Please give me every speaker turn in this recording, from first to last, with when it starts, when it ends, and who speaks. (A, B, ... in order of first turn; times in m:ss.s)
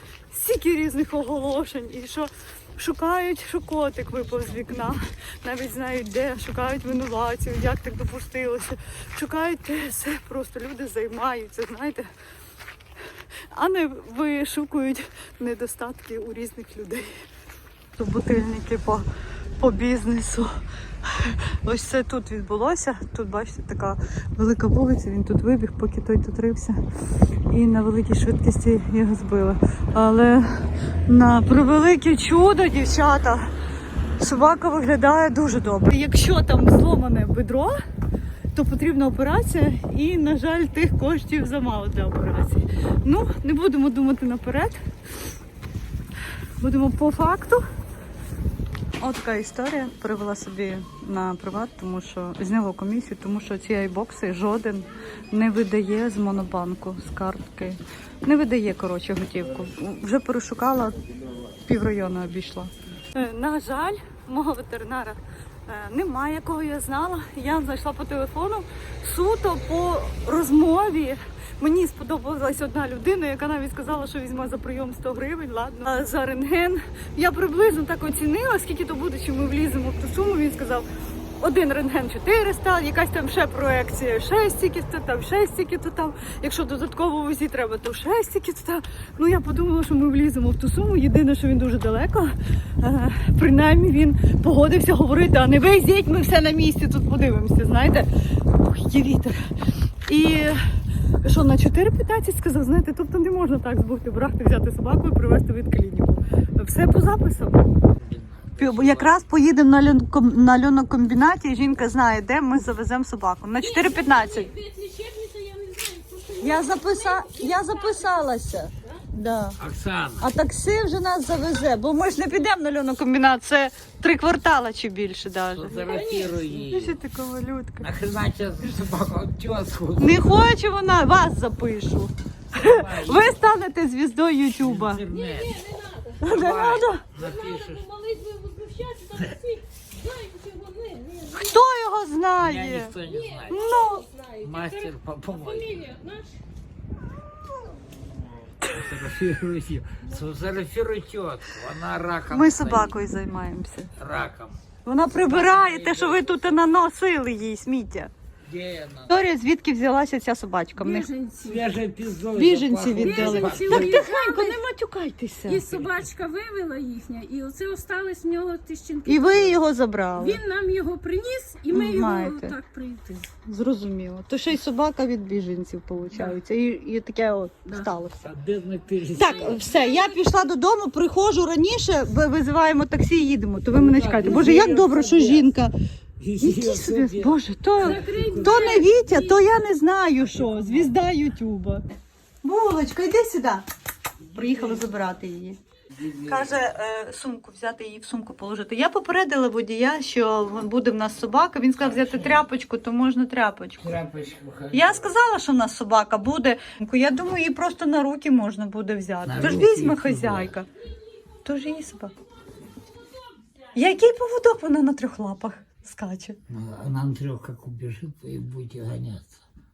0:00.3-0:12.0 A
0:13.5-0:17.2 A
0:18.0-0:19.0 A
0:19.6-0:20.5 A
0:21.0-0:26.8 A
0:27.5-0:33.4 A
0:34.2-0:37.8 A
0:38.5-0:44.8 A
0:46.6-0:47.6 A
0:49.0-1:01.0 A
1:01.0-1:01.6 B
1:01.6-1:20.8 A
1:21.4-1:39.5 A
1:40.0-1:40.6 A
1:41.2-1:47.7 A
1:47.9-1:49.2 B
1:48.6-1:54.5 A
1:53.6-1:59.0 C
1:56.4-1:59.6 A
1:59.6-2:00.3 B
2:00.2-2:05.9 A
2:05.5-2:07.0 B
2:05.8-2:06.6 C
2:06.7-2:07.9 A
2:07.8-2:10.5 B
2:10.0-2:15.0 A
2:12.5-2:13.4 B
2:14.6-2:15.6 B
2:15.1-2:16.2 C
2:16.2-2:17.0 A
2:16.2-2:17.8 B
2:17.2-2:21.6 C
2:21.3-2:23.0 A
2:22.4-2:23.6 B
2:23.0-2:26.4 C
2:23.5-2:24.0 A
2:24.4-2:25.8 B
2:28.6-2:33.0 B
2:28.6-2:28.9 A
2:32.3-2:33.9 A
2:34.0-2:36.6 B
2:34.8-2:38.1 A
2:38.4-2:39.2 B
2:39.1-2:41.1 A
2:40.8-2:41.7 C
2:41.4-2:44.0 B
2:42.3-2:45.6 A
2:43.0-2:44.6 C
2:45.4-2:49.6 C
2:45.6-2:46.1 B
2:49.0-2:50.4 A
2:50.2-2:53.3 C
2:51.7-2:52.6 A
2:53.4-2:58.2 A
2:56.1-2:56.4 C
2:57.6-2:57.9 C
2:58.2-2:59.6 B
2:59.2-3:05.7 A
2:59.2-3:00.5 C
3:03.7-3:05.5 B
3:06.2-3:08.8 B
3:06.4-3:13.6 A
3:07.8-3:09.4 C
3:10.2-3:11.1 B
3:14.3-3:15.6 A
3:15.9-3:16.6 B
3:16.2-3:23.9 A
3:21.8-3:22.4 B
3:23.8-3:25.1 B
3:24.7-3:30.7 A
3:29.2-3:30.5 B
3:30.7-3:34.0 C
3:31.4-3:32.1 A
3:33.7-3:36.4 A
3:36.5-3:39.4 B